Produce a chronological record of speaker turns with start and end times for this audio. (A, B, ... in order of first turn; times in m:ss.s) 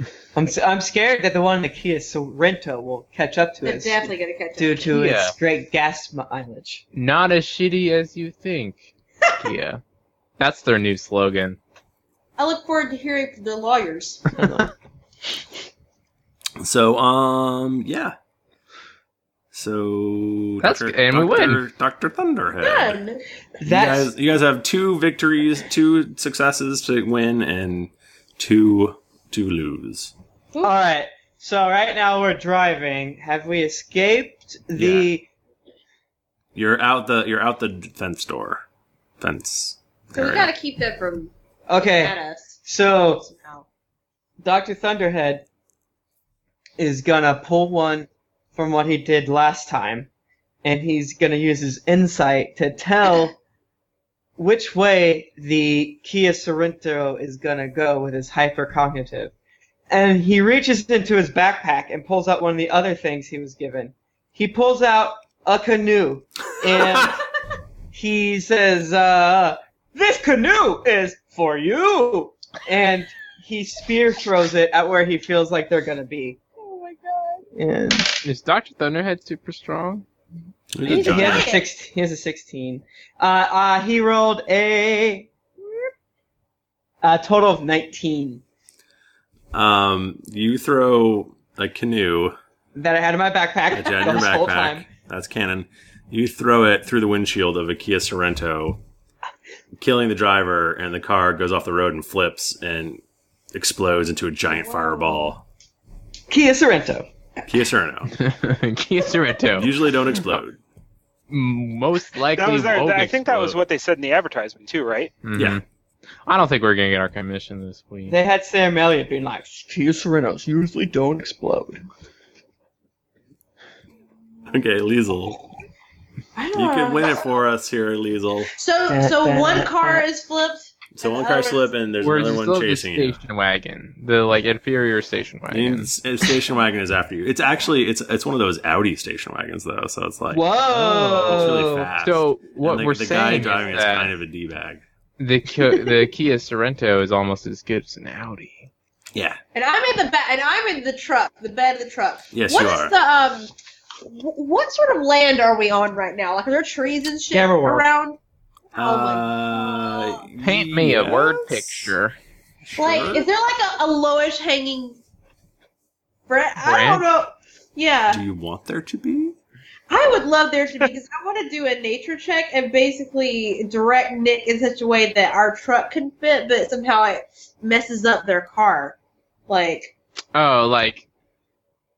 0:00.3-0:06.8 A
0:03.6-0:04.9 B
0:04.9-0:05.4 C
0:06.9-0:09.8 C
0:10.4-0:11.6 C
0:12.4-0:14.3 B
0:14.4-0:14.7 A
0:16.6-0:18.2 D
0:19.5-0:23.0 D
0:20.6-0:21.6 C
0:22.6-0:23.2 B
0:23.6-0:24.1 A
0:23.6-0:30.1 D
0:30.6-0:35.3 A
0:34.8-0:35.1 D
0:36.6-0:38.6 D
0:39.2-0:40.5 D
0:40.1-0:42.6 B
0:41.7-0:43.3 A
0:43.2-0:43.7 B
0:44.4-0:45.4 A
0:46.8-0:50.1 A
0:50.6-0:53.3 A
0:54.4-0:59.3 A
0:59.9-1:07.2 A
1:07.9-1:16.4 A
1:16.6-1:17.4 B
1:17.6-1:18.2 A
1:18.2-1:20.0 C
1:20.7-1:21.5 D
1:20.9-1:21.6 B
1:20.9-1:25.3 A
1:27.0-1:28.4 A
1:29.5-1:32.4 D
1:32.8-1:34.9 A
1:33.7-1:38.8 D
1:39.8-1:43.0 D
1:43.5-1:45.4 D
1:44.6-1:45.3 B
1:46.3-1:47.1 A
1:47.5-1:48.1 D
1:48.2-1:49.8 C
1:49.5-1:50.6 D
1:51.3-1:53.6 C
1:52.3-1:55.1 E
1:55.2-1:55.6 C
1:55.3-1:55.6 D
1:56.3-1:58.2 C
1:58.1-2:01.8 A
2:04.5-2:05.4 D
2:06.4-2:07.2 B
2:06.5-2:08.5 D
2:08.5-2:11.7 B
2:08.9-2:10.1 A
2:10.9-2:13.2 D
2:12.0-2:15.9 C
2:15.5-2:20.5 D
2:20.3-2:21.9 A
2:20.7-2:24.1 C
2:21.2-2:24.8 D
2:25.2-2:28.7 C
2:29.5-2:33.5 B
2:32.3-2:32.9 D
2:34.0-2:38.2 B
2:37.3-2:37.8 A
2:38.7-2:40.3 B
2:38.7-2:41.9 D
2:40.4-2:42.2 C
2:42.6-2:43.3 D
2:42.8-2:45.0 B
2:46.3-2:48.2 B
2:46.6-2:47.0 C
2:48.1-2:49.4 D
2:49.9-2:59.0 B
2:59.5-2:59.9 B
3:00.4-3:01.1 C